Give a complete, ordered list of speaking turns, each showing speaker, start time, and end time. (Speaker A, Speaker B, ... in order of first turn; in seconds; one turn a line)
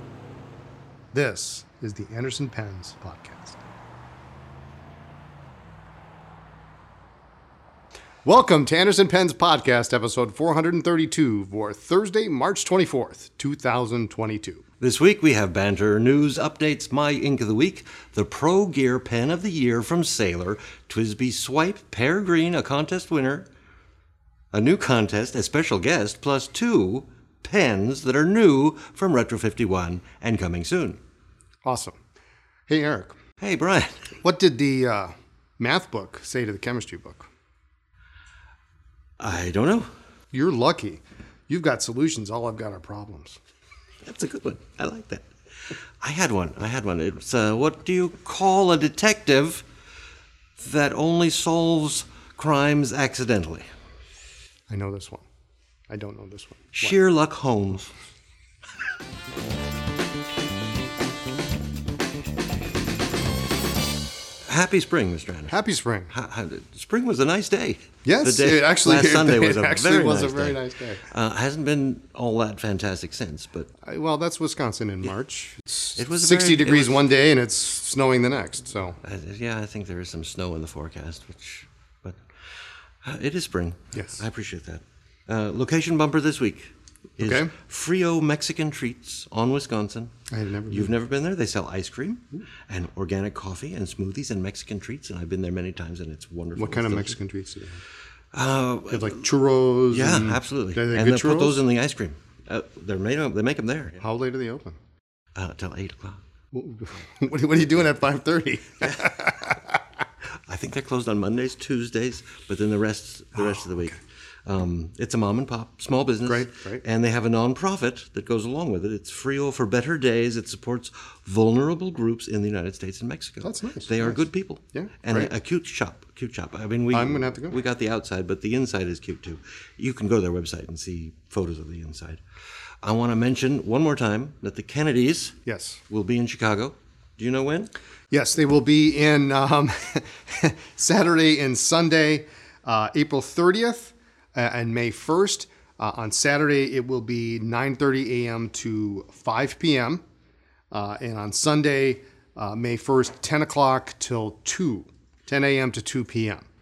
Speaker A: 1.1-3.6
Speaker A: 8.2-14.6
Speaker B: 14.8-23.5
Speaker B: 24.5-31.0
Speaker A: 31.6-32.0
Speaker A: 32.7-33.1
Speaker B: 33.4-34.1
Speaker A: 34.2-37.3
Speaker B: 39.2-39.9
Speaker A: 40.3-43.4
Speaker B: 44.0-49.7
Speaker B: 50.6-53.7
Speaker A: 54.7-55.2
Speaker A: 55.9-57.0
Speaker B: 56.7-57.9
Speaker B: 64.4-65.5
Speaker A: 65.5-66.1
Speaker B: 66.1-73.7
Speaker A: 68.0-71.0
Speaker A: 73.8-79.0
Speaker B: 75.9-77.1
Speaker B: 79.0-82.2
Speaker B: 83.0-90.1
Speaker A: 83.9-84.2
Speaker A: 87.2-87.5
Speaker A: 90.3-90.9
Speaker B: 90.7-97.2
Speaker A: 96.5-97.8
Speaker B: 98.3-99.2
Speaker A: 98.9-101.6
Speaker B: 99.9-104.0
Speaker A: 104.0-104.8
Speaker B: 105.3-106.2
Speaker A: 106.5-109.8
Speaker B: 108.8-109.1
Speaker B: 110.5-132.2
Speaker A: 116.2-116.8
Speaker A: 123.4-124.2
Speaker A: 124.7-125.3
Speaker A: 126.9-127.6
Speaker B: 132.8-135.4
Speaker A: 135.4-135.8
Speaker B: 135.9-137.7
Speaker A: 138.1-150.0
Speaker A: 150.7-156.5